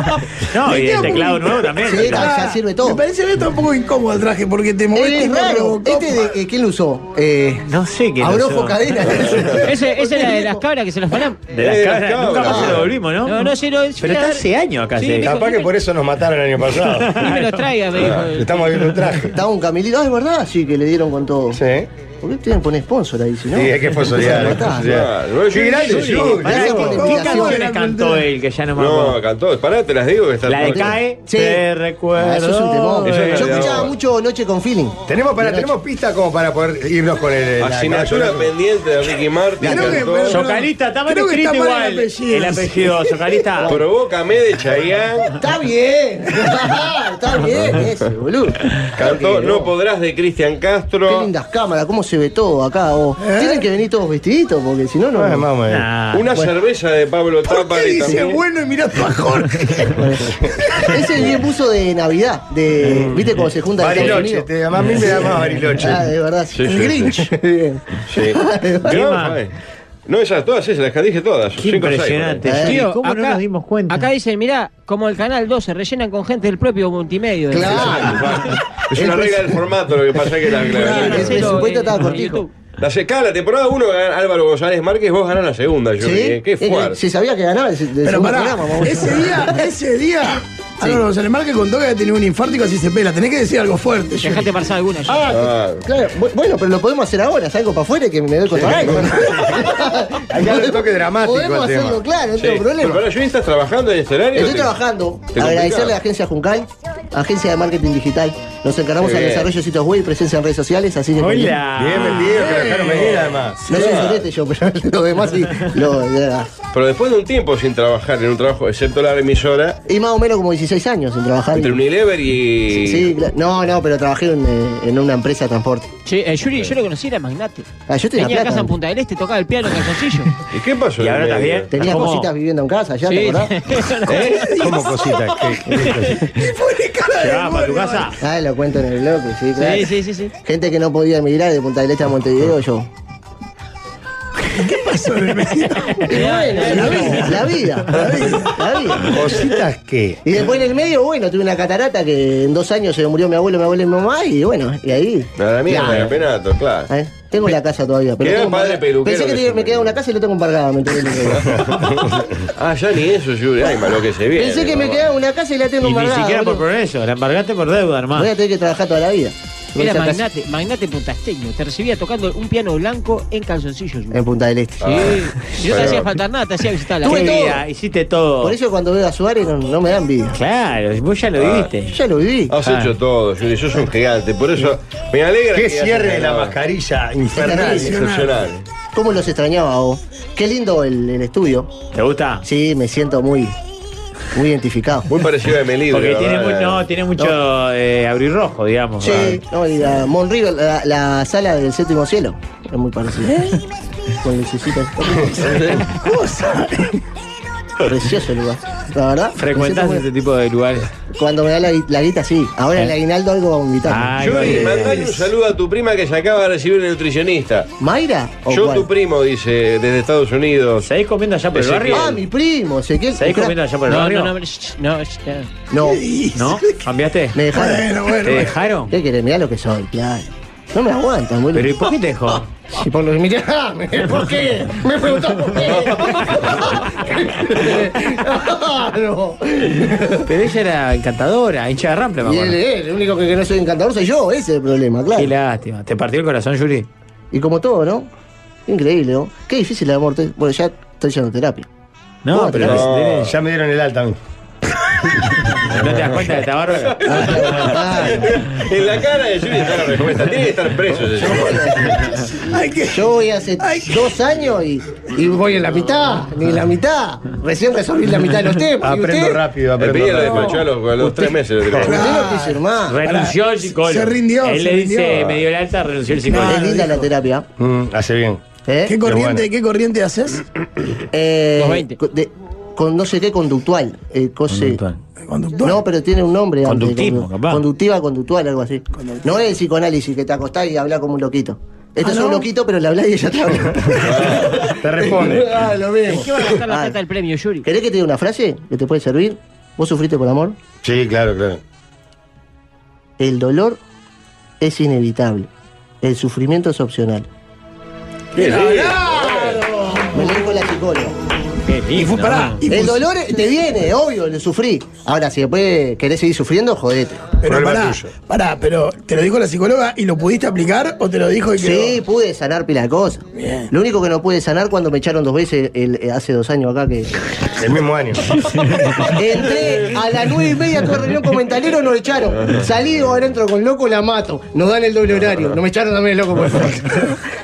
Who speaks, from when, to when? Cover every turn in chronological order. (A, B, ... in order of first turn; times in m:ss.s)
0:00.5-0:02.5 A
0:00.6-0:06.3 B
0:01.8-0:03.0 C
0:04.9-0:10.6 C
0:07.6-0:09.2 A
0:09.1-0:09.7 D
0:09.6-0:11.5 E
0:11.5-0:15.4 A
0:11.5-0:12.9 D
0:13.2-0:15.7 E
0:15.2-0:17.2 F
0:17.0-0:17.7 A
0:17.2-0:18.9 E
0:17.9-0:18.3 D
0:18.3-0:19.3 F
0:19.3-0:21.6 C
0:21.5-0:21.9 F
0:22.2-0:24.9 C
0:23.5-0:26.8 F
0:24.2-0:26.2 D
0:25.9-0:29.2 A
0:26.0-0:28.3 B
0:26.5-0:27.6 C
0:28.8-0:31.0 D
0:30.5-0:33.8 A
0:31.2-0:31.6 C
0:32.2-0:35.7 C
0:33.0-0:33.9 D
0:35.1-0:38.5 F
0:37.6-0:40.5 D
0:39.6-0:43.4 B
0:40.2-0:43.8 A
0:43.6-0:45.4 D
0:45.4-0:49.7 C
0:48.9-0:51.3 D
0:51.1-0:55.5 C
0:53.2-0:53.6 B
0:55.1-0:55.9 F
0:55.7-0:56.3 A
0:56.1-0:58.4 D
0:57.5-1:00.0 B
1:00.0-1:08.9 C
1:02.8-1:06.1 F
1:06.5-1:07.3 D
1:08.1-1:09.6 D
1:08.8-1:09.4 A
1:10.1-1:12.5 D
1:11.6-1:14.1 A
1:12.4-1:12.8 C
1:12.6-1:18.3 E
1:17.5-1:19.6 C
1:17.8-1:21.6 D
1:20.7-1:21.6 B
1:20.7-1:22.5 E
1:20.8-1:22.4 C
1:22.8-1:27.0 D
1:26.0-1:29.6 C
1:28.0-1:34.5 B
1:34.2-1:35.2 E
1:35.1-1:43.0 C
1:35.2-1:35.8 D
1:38.5-1:39.7 D
1:40.3-1:42.0 F
1:42.4-1:46.0 D
1:44.3-1:51.6 C
1:49.0-1:49.5 D
1:51.2-1:52.9 A
1:51.7-1:53.7 F
1:52.4-1:53.2 B
1:53.6-1:56.5 C
1:53.7-1:54.2 D
1:56.7-1:59.8 D
1:59.9-2:01.8 C
2:01.5-2:03.2 D
2:02.7-2:05.9 C
2:06.0-2:10.3 E
2:07.9-2:08.7 C
2:10.5-2:11.7 D
2:11.0-2:12.3 A
2:11.7-2:13.5 C
2:13.0-2:14.5 E
2:14.1-2:14.4 D
2:14.4-2:15.6 B
2:14.5-2:16.2 F
2:16.2-2:18.1 B
2:17.2-2:18.2 A
2:18.2-2:19.9 C
2:19.6-2:20.3 E
2:20.4-2:22.9 C
2:24.6-2:26.1 B
2:26.1-2:29.5 C
2:26.1-2:27.3 E
2:26.6-2:27.4 B
2:27.9-2:28.5 B
2:29.0-2:30.2 F
2:30.2-2:36.2 C
2:35.4-2:36.9 D
2:36.9-2:41.6 C
2:38.2-2:40.0 D
2:41.5-2:42.4 F
2:42.6-2:45.0 D
2:43.6-2:46.6 C
2:45.8-2:48.3 A
2:48.2-2:50.3 C
2:49.8-2:54.2 E
2:54.1-2:55.1 C
2:54.8-2:56.2 D
2:54.8-2:57.5 E
2:57.0-2:58.6 A
2:57.1-2:57.6 C
2:58.4-3:00.4 C
3:00.3-3:02.0 A
3:01.4-3:01.7 D
3:01.8-3:02.5 C
3:02.5-3:06.6 D
3:02.6-3:02.9 A
3:05.5-3:07.8 F
3:07.4-3:07.9 C
3:07.4-3:08.4 B
3:07.7-3:08.7 D
3:08.9-3:11.7 C
3:11.9-3:12.4 A
3:12.4-3:13.6 C
3:14.3-3:15.1 C
3:15.1-3:16.8 D
3:15.9-3:19.4 A
3:19.0-3:23.6 C
3:24.2-3:25.8 C
3:25.3-3:25.8 D
3:25.9-3:27.0 B
3:27.8-3:30.1 C
3:29.4-3:30.9 A
3:31.1-3:34.8 C
3:33.9-3:35.1 A
3:34.2-3:37.7 D
3:37.8-3:38.9 C
3:38.5-3:40.9 D
3:40.8-3:42.2 A
3:41.5-3:42.2 D
3:41.9-3:43.6 C
3:43.2-3:44.4 A
3:43.9-3:45.5 E
3:45.7-3:46.0 C
3:45.8-3:46.9 B
3:46.4-3:47.4 A
3:47.3-3:48.0 C
3:47.5-3:48.6 B
3:48.2-3:48.9 A
3:48.9-4:00.3 C
3:51.5-3:52.5 A
4:00.3-4:02.6 A
4:02.2-4:05.3 C
4:05.2-4:06.9 A
4:07.3-4:08.1 C
4:08.7-4:11.7 C
4:12.2-4:13.4 A
4:12.3-4:12.8 C
4:12.6-4:13.3 D
4:13.1-4:14.2 F
4:15.7-4:18.3 A
4:15.7-4:21.9 D
4:17.0-4:18.4 C
4:21.1-4:22.2 C
4:22.4-4:24.1 B
4:22.9-4:29.4 C
4:28.8-4:30.6 F
4:29.8-4:32.1 D
4:31.0-4:33.0 C
4:31.8-4:35.3 B
4:32.8-4:36.8 A
4:36.2-4:37.0 B
4:36.4-4:37.5 C
4:37.6-4:39.5 F
4:38.7-4:39.0 C
4:38.9-4:40.4 B
4:41.1-4:44.8 C
4:41.6-4:42.0 E
4:44.5-4:45.0 A
4:45.3-4:45.8 B
4:45.6-4:57.0 C
4:46.6-4:47.6 A
4:48.9-4:49.4 B
4:52.0-4:52.4 B
4:54.0-4:54.6 D
4:54.1-4:55.6 F
4:56.1-4:57.7 E
4:57.6-5:00.6 C
5:00.8-5:01.6 F
5:03.2-5:03.8 C
5:04.6-5:05.5 C
5:06.0-5:07.3 C
5:08.3-5:10.6 B
5:08.4-5:09.6 D
5:10.1-5:11.2 C
5:11.7-5:12.6 A
5:11.9-5:13.6 B
5:12.7-5:17.4 C
5:17.4-5:22.0 B
5:17.4-5:18.1 F
5:21.6-5:27.1 C
5:23.4-5:23.7 B
5:27.6-5:28.5 F
5:29.0-5:37.2 C
5:32.4-5:32.7 D